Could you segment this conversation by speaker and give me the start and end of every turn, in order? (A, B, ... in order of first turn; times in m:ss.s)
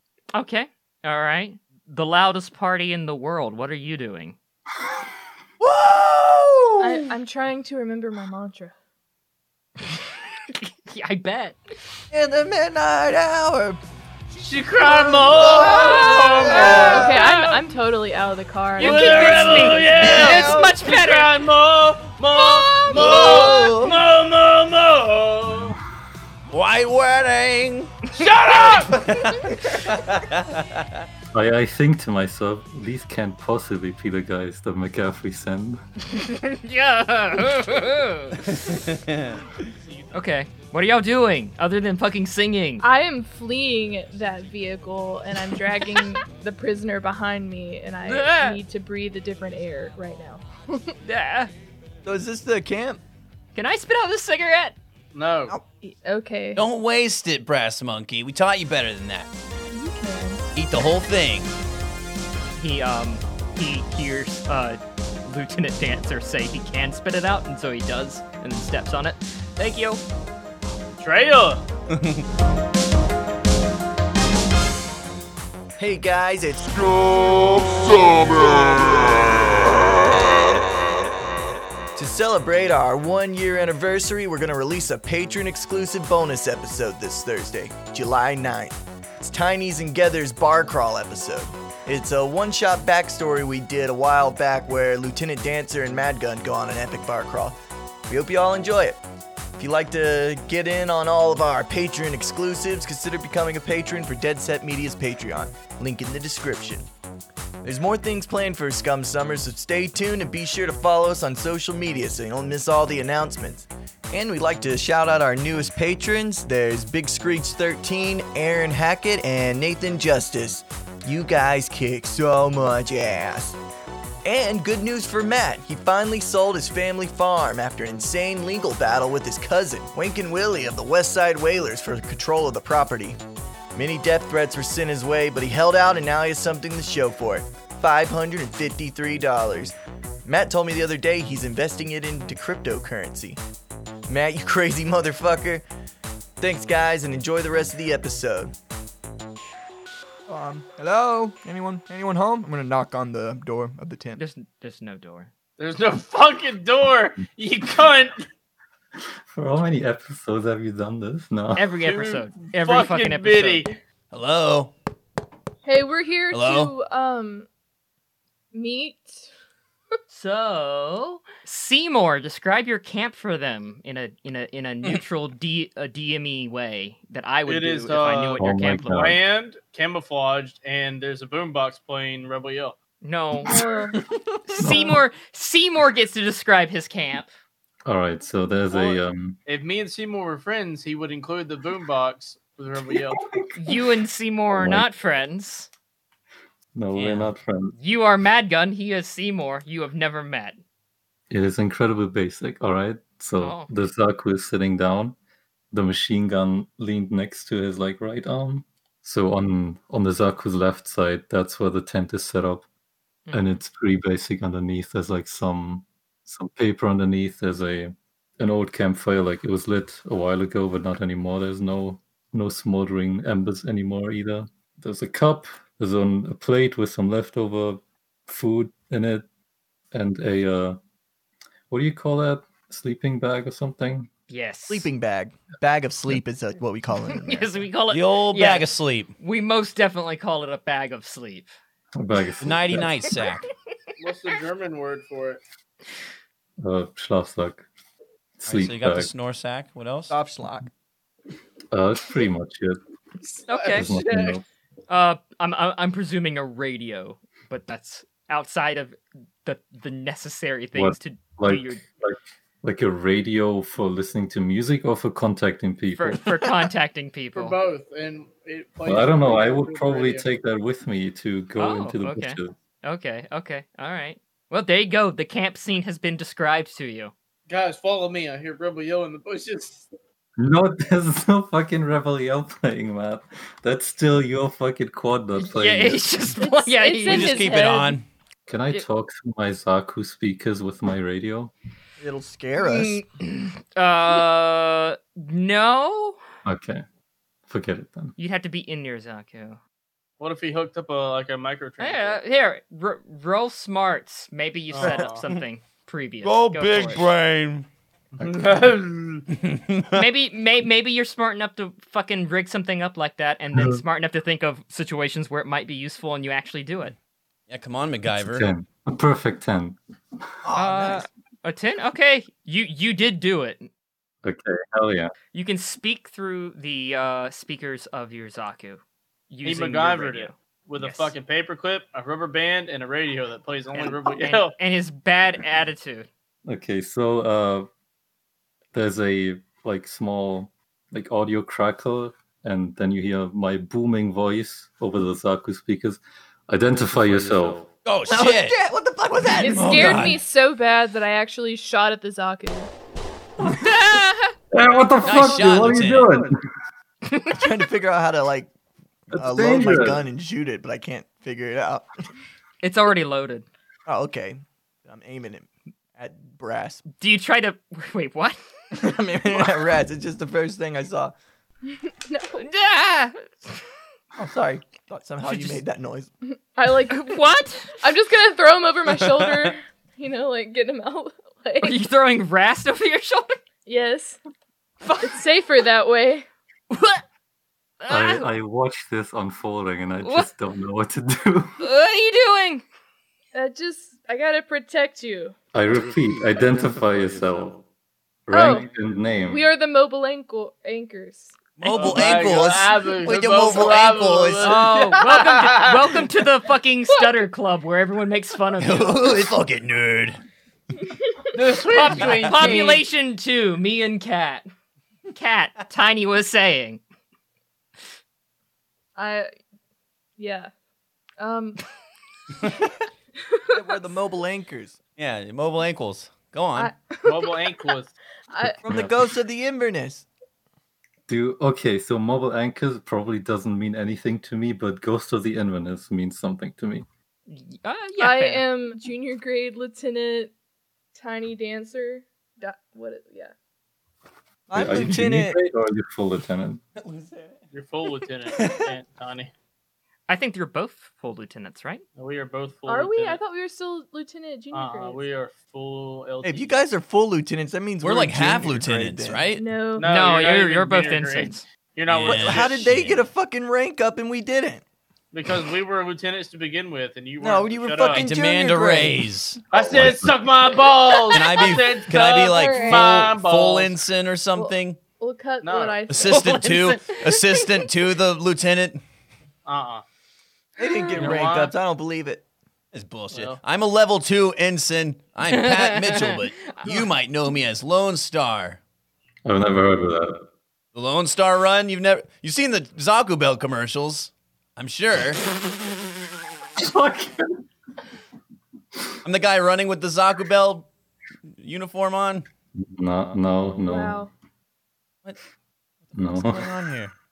0:00.3-0:04.4 A
0:05.6-0:07.1 B
0:06.8-0:08.7 C
0:10.5-0:11.6 A
0:12.1-0:13.8 B
0:14.3-0:17.1 D
0:14.8-0:17.1 B
0:15.4-0:17.6 A
0:16.6-0:20.1 C
0:18.8-0:21.3 A
0:18.8-0:25.8 D
0:19.8-0:20.7 E
0:22.3-0:23.7 A
0:22.9-0:24.0 B
0:22.9-0:23.4 E
0:26.5-0:28.0 E
0:28.1-0:29.1 D
0:28.2-0:28.8 A
0:28.9-0:31.0 E
0:31.3-0:35.8 F
0:36.1-0:38.8 A
0:38.7-0:39.4 E
0:40.1-0:42.8 A
0:42.8-0:50.9 C
0:48.0-0:48.6 A
0:51.0-0:51.5 A
0:52.0-0:53.0 B
0:53.5-0:54.8 A
0:55.1-0:55.6 D
0:55.8-0:56.6 C
0:56.5-0:59.3 E
0:59.7-1:00.4 C
1:00.5-1:01.5 E
1:02.6-1:10.0 A
1:11.0-1:11.6 D
1:15.8-1:19.3 B
1:22.0-1:39.0 B
1:39.6-1:46.9 B
1:47.6-2:03.6 B
2:04.2-2:13.2 B
2:13.7-2:23.4 B
2:24.1-2:25.6 B
2:26.4-2:28.5 B
2:30.3-2:34.2 B
2:34.2-2:35.3 A
2:35.6-2:38.2 D
2:39.0-2:41.7 F
2:41.6-2:43.7 A
2:41.8-2:43.8 D
2:44.1-2:44.7 E
2:45.6-2:47.5 C
2:46.3-2:46.7 E
2:48.5-2:49.3 C
2:50.1-2:59.1 A
2:57.4-3:02.8 D
2:58.4-2:59.2 F
3:03.0-3:03.6 A
3:03.4-3:04.0 C
3:04.5-3:07.3 A
3:04.6-3:04.9 F
3:07.8-3:09.4 F
3:08.7-3:13.2 D
3:13.5-3:15.7 A
3:14.6-3:14.9 F
3:16.7-3:17.7 F
3:16.9-3:17.3 E
3:17.7-3:20.6 A
3:21.3-3:25.2 F
3:23.4-3:23.7 A
3:25.7-3:32.6 F
3:33.3-3:33.6 A
3:33.3-3:49.2 F
3:49.9-3:50.8 F
3:51.7-3:54.1 F
3:54.3-3:54.9 A
3:54.7-3:57.7 B
3:57.1-4:01.6 A
3:57.9-3:59.1 E
4:02.0-4:03.1 F
4:02.4-4:03.5 E
4:04.0-4:05.4 D
4:06.6-4:07.6 F
4:08.4-4:09.1 F
4:08.4-4:10.1 E
4:10.1-4:10.7 B
4:11.7-4:12.8 F
4:13.5-4:14.4 D
4:13.5-4:13.9 A
4:13.7-4:14.4 F
4:14.9-4:21.8 A
4:20.7-4:26.3 F
4:25.9-4:27.6 A
4:27.3-4:30.3 D
4:28.8-4:32.5 F
4:31.6-4:37.1 A
4:37.5-4:39.9 D
4:40.4-4:46.2 F
4:45.4-4:47.4 A
4:46.4-4:48.0 C
4:47.0-4:48.0 E
4:48.5-4:51.5 F
4:52.0-4:53.0 B
4:52.6-4:56.2 A
4:56.4-4:56.8 F
4:57.5-4:58.1 F
4:58.2-4:59.6 A
5:00.2-5:02.2 D
5:01.8-5:07.1 A
5:04.7-5:05.2 D
5:04.8-5:05.4 E
5:06.2-5:07.7 E
5:08.2-5:09.3 D
5:08.2-5:08.5 F
5:09.3-5:10.0 E
5:09.9-5:16.9 A
5:13.5-5:13.8 F
5:17.5-5:18.5 E
5:18.1-5:19.8 F
5:20.4-5:21.0 B
5:20.5-5:23.7 A
5:24.2-5:25.1 F
5:25.3-5:31.1 A
5:29.4-5:34.6 D
5:33.7-5:36.1 A
5:36.4-5:37.7 F
5:38.7-5:47.7 F
5:47.8-5:48.6 E
5:48.1-5:50.1 B
5:49.2-5:50.2 E
5:49.4-5:52.7 C
5:53.4-5:53.7 F
5:53.5-5:54.3 A
5:54.5-5:56.4 F
5:55.0-5:56.1 E
5:57.1-5:57.4 A
5:57.3-5:58.5 B
5:59.1-6:01.9 B
5:59.1-6:00.0 F
6:02.6-6:03.4 A
6:03.8-6:06.8 B
6:07.0-6:08.4 A
6:08.7-6:11.1 B
6:11.7-6:12.4 C
6:12.4-6:13.6 A
6:14.2-6:16.1 B
6:15.2-6:15.6 A
6:16.5-6:17.2 C
6:16.9-6:17.7 A
6:17.8-6:21.7 C
6:18.9-6:19.5 E
6:21.6-6:23.4 A
6:23.6-6:24.2 C
6:24.8-6:25.2 A
6:25.0-6:26.3 C
6:26.7-6:27.0 A
6:27.8-6:28.3 A
6:27.9-6:31.6 F
6:30.0-6:30.3 A
6:31.6-6:32.6 A
6:33.3-6:35.4 C
6:35.5-6:37.6 F
6:38.3-6:39.5 F
6:38.3-6:38.7 C
6:39.3-6:41.4 C
6:41.6-6:44.6 E
6:41.6-6:46.0 D
6:42.0-6:42.6 B
6:43.4-6:43.9 B
6:44.4-6:49.2 A
6:48.6-6:50.2 E
6:51.3-6:52.8 D
6:51.7-6:54.5 A
6:55.1-6:56.8 A
6:59.0-6:59.3 C
7:00.2-7:00.5 C
7:01.2-7:01.6 C
7:03.5-7:04.8 B
7:05.0-7:06.7 E
7:06.6-7:07.7 C
7:07.0-7:07.9 D
7:08.3-7:08.6 C
7:08.4-7:10.1 B
7:08.7-7:09.0 F
7:11.1-7:16.8 F
7:17.3-7:18.4 A
7:18.0-7:20.3 C
7:20.9-7:23.3 C
7:24.5-7:25.4 B
7:24.5-7:26.6 F
7:26.8-7:27.3 E
7:27.5-7:29.3 D
7:28.3-7:28.7 E
7:30.1-7:31.8 A
7:32.0-7:33.2 D
7:32.7-7:35.0 C
7:34.5-7:36.6 D
7:36.2-7:39.2 B
7:37.8-7:39.4 E
7:39.3-7:39.9 C
7:39.8-7:42.7 D
7:39.8-7:41.4 A
7:41.9-7:43.0 E
7:42.1-7:44.6 B
7:45.1-7:48.0 D
7:47.2-7:49.0 B
7:47.9-7:49.4 E
7:49.5-7:53.8 D
7:49.7-7:50.2 F
7:51.1-7:54.8 E
7:52.3-7:52.9 C
7:54.4-7:56.5 C
7:55.4-7:55.8 D
7:55.9-7:58.8 E
7:56.1-7:57.7 A
7:59.4-7:59.8 D
8:00.6-8:02.2 B
8:00.9-8:01.5 D
8:02.7-8:08.6 E
8:03.1-8:03.4 D
8:05.3-8:06.8 A
8:09.2-8:10.3 F
8:10.7-8:15.2 E
8:16.6-8:17.4 F
8:19.0-8:20.7 E
8:21.4-8:22.2 E
8:22.6-8:24.0 F
8:23.6-8:24.1 C
8:25.9-8:26.9 E
8:25.9-8:26.6 F